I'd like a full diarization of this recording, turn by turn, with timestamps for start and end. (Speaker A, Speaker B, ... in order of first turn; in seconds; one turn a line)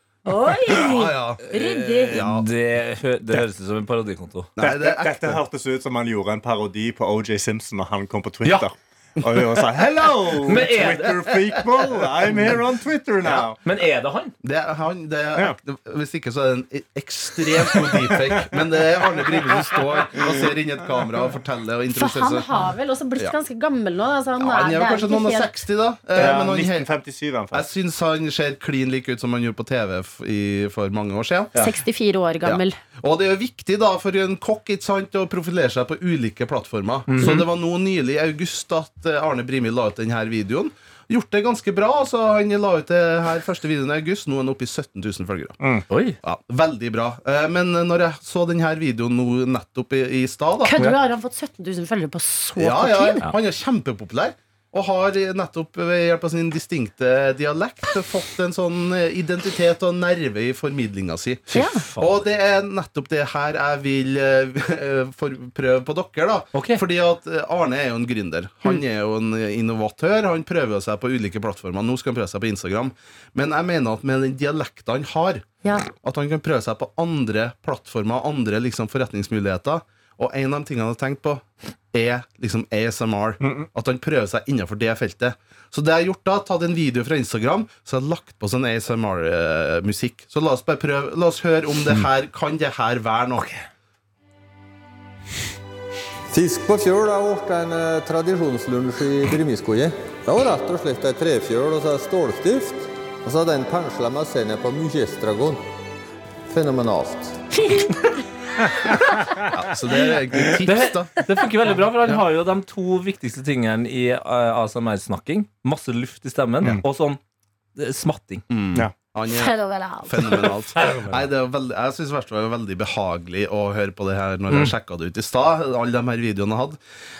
Speaker A: 0.2-2.2
Speaker B: 0.7-1.4
Speaker C: 1.5-4.5
Speaker B: 2.1-2.5
Speaker B: 4.5-5.4
Speaker D: 4.6-13.6
Speaker B: 9.2-9.6
Speaker C: 10.4-11.3
Speaker B: 10.8-11.7
Speaker C: 13.6-14.3
Speaker B: 14.4-22.4
Speaker D: 17.6-18.5
Speaker D: 19.2-19.8
Speaker A: 21.9-25.5
Speaker B: 24.4-26.9
Speaker D: 26.1-27.7
Speaker B: 27.5-31.5
Speaker A: 31.6-32.7
Speaker B: 32.4-45.5
Speaker C: 37.1-37.4
Speaker C: 45.9-46.2
Speaker B: 46.2-50.7
Speaker A: 50.6-53.2
Speaker B: 52.5-93.5
Speaker A: 61.5-61.8
Speaker C: 61.5-62.2
Speaker C: 66.5-66.8
Speaker D: 83.4-83.7
Speaker E: 96.3-105.6
Speaker E: 106.5-107.4
Speaker A: 107.5-109.4
Speaker B: 109.5-111.2
Speaker C: 110.6-117.2
Speaker C: 117.8-118.4
Speaker B: 118.5-126.8
Speaker A: 119.2-120.5
Speaker C: 120.8-121.2